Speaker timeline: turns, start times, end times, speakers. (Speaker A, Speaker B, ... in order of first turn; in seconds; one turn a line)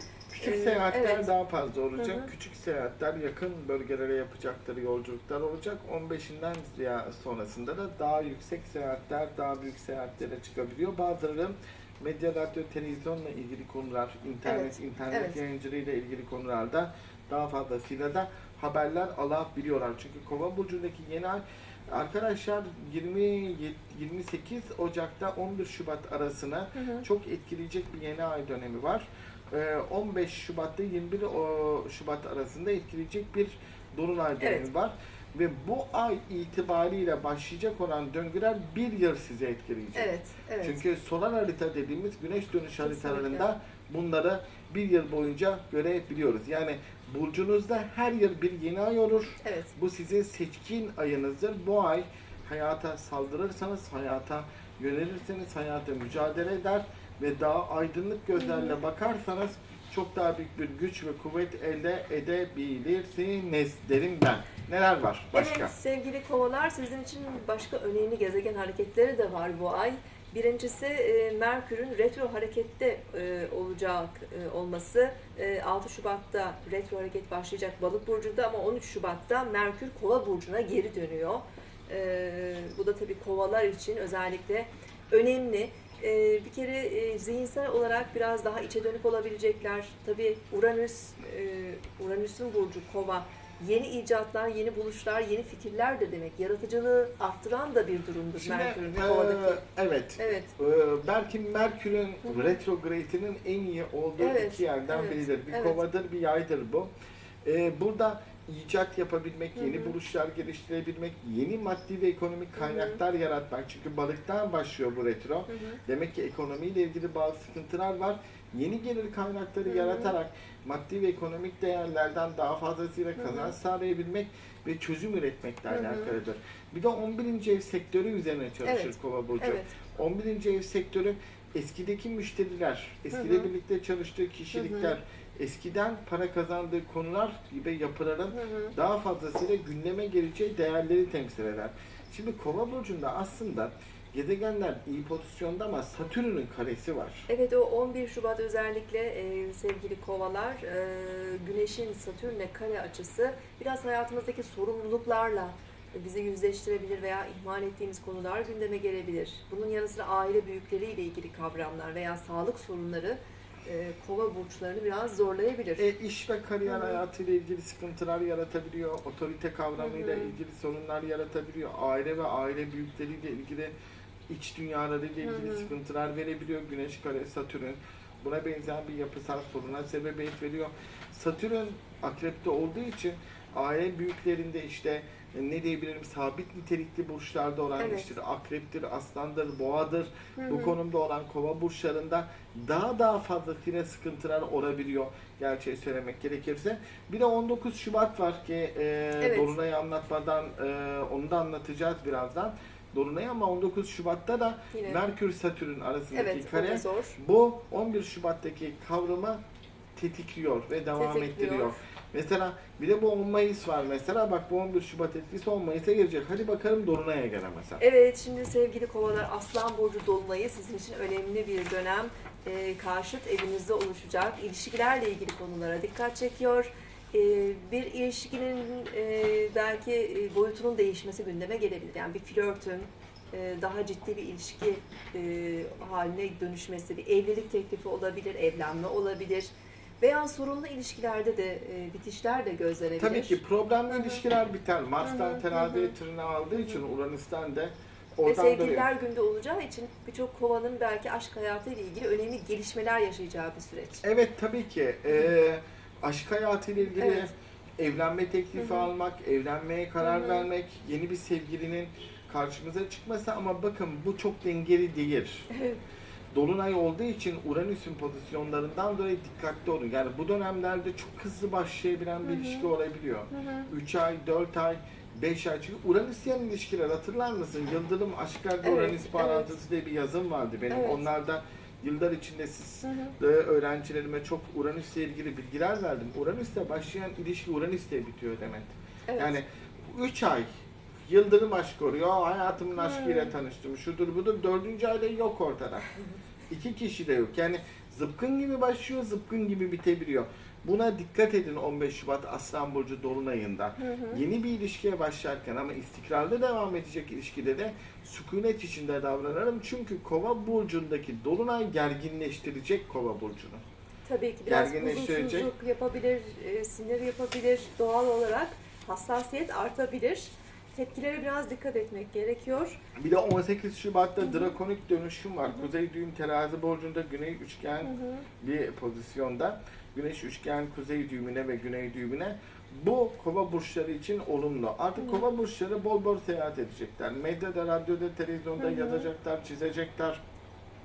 Speaker A: 0.3-65.7
Speaker B: 0.4-1.3
Speaker B: 2.0-2.3
Speaker B: 14.4-15.4
Speaker B: 26.8-27.1
Speaker B: 34.4-34.7
Speaker B: 39.9-40.8
Speaker B: 42.8-43.5
Speaker B: 49.4-49.7
Speaker B: 58.4-58.8
Speaker B: 65.3-99.6
Speaker A: 98.4-106.9
Speaker B: 100.2-100.5
Speaker B: 102.2-102.6
Speaker B: 104.2-105.8
Speaker A: 107.4-147.3
Speaker B: 109.6-110.0
Speaker B: 112.6-113.0
Speaker B: 115.5-115.8
Speaker B: 119.7-120.2
Speaker B: 123.2-123.5
Speaker B: 125.7-126.2
Speaker B: 128.6-129.7
Speaker B: 133.1-133.5
Speaker B: 134.5-135.0
Speaker B: 138.3-138.7
Speaker B: 147.3-165.9
Speaker A: 165.8-173.7
Speaker B: 166.7-167.0
Speaker B: 169.8-170.3
Speaker A: 174.3-209.4
Speaker B: 175.2-175.7
Speaker B: 187.8-188.1
Speaker B: 190.4-190.8
Speaker B: 199.2-199.6
Speaker B: 204.7-205.0
Speaker B: 206.1-207.2
Speaker A: 210.0-217.8
Speaker B: 210.9-211.8
Speaker B: 217.8-244.2
Speaker A: 243.0-248.9
Speaker B: 245.0-245.9
Speaker B: 246.6-246.8
Speaker B: 248.3-254.0
Speaker A: 254.0-265.5
Speaker B: 256.9-257.3
Speaker B: 258.6-258.9
Speaker B: 260.0-260.5
Speaker B: 265.5-265.8
Speaker A: 266.3-290.5
Speaker B: 272.2-272.7
Speaker B: 273.3-273.7
Speaker B: 278.6-279.5
Speaker B: 280.7-281.0
Speaker B: 282.8-283.1
Speaker B: 289.1-289.4
Speaker A: 291.1-295.9
Speaker B: 292.8-293.3
Speaker A: 296.5-313.6
Speaker B: 303.8-304.2
Speaker B: 314.1-322.8
Speaker A: 314.5-315.5
Speaker A: 322.9-340.2
Speaker B: 324.2-324.5
Speaker B: 327.8-328.2
Speaker B: 335.0-335.2
Speaker B: 338.6-339.1